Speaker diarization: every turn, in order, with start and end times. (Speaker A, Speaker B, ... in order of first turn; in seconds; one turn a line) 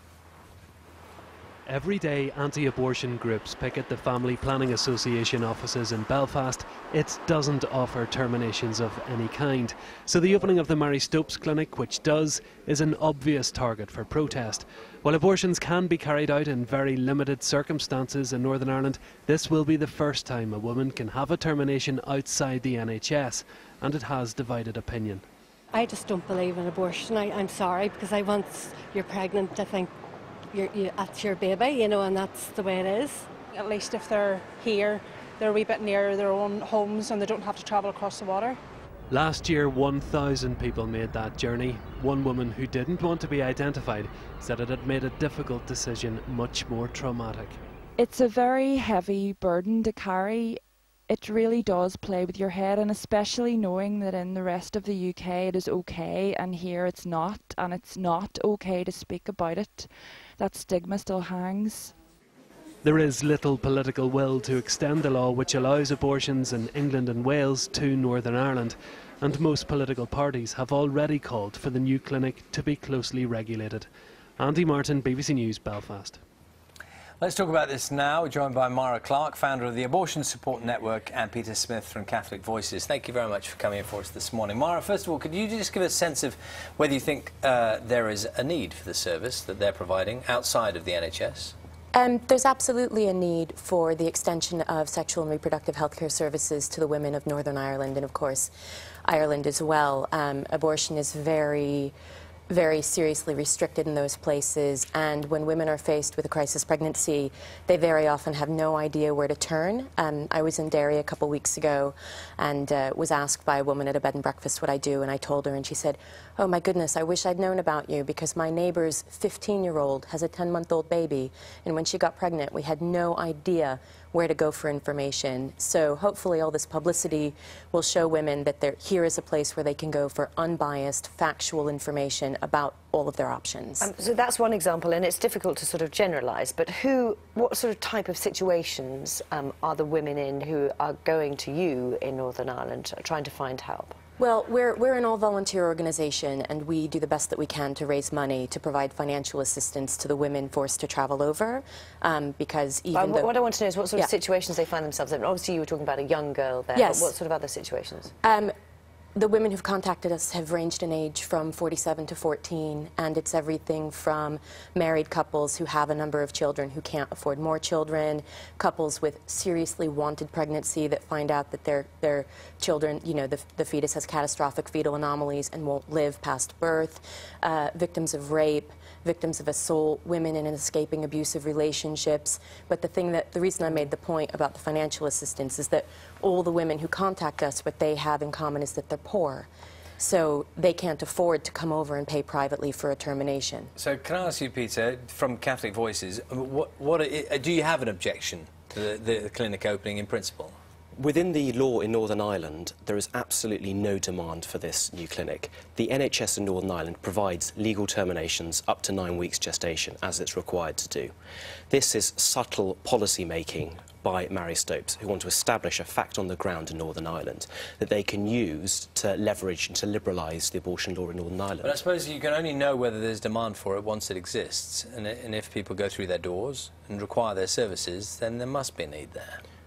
Speaker A: 1.7-25.2
Speaker B: 25.7-29.9
Speaker B: 30.5-33.3
Speaker C: 33.5-38.6
Speaker A: 39.1-47.6
Speaker D: 48.0-62.0
Speaker A: 62.8-73.9
Speaker A: 74.4-76.2
Speaker E: 77.2-91.5
Speaker F: 91.9-98.5
Speaker F: 99.0-101.9
Speaker F: 102.5-133.9
Speaker G: 133.8-144.0
Speaker F: 144.2-153.3
Speaker G: 152.9-158.1
Speaker F: 156.8-157.2
Speaker F: 158.2-158.5
Speaker F: 159.2-189.5
Speaker F: 190.0-193.7
Speaker E: 193.8-200.6
Speaker H: 201.0-211.1
Speaker H: 211.7-221.8
Speaker E: 221.6-229.4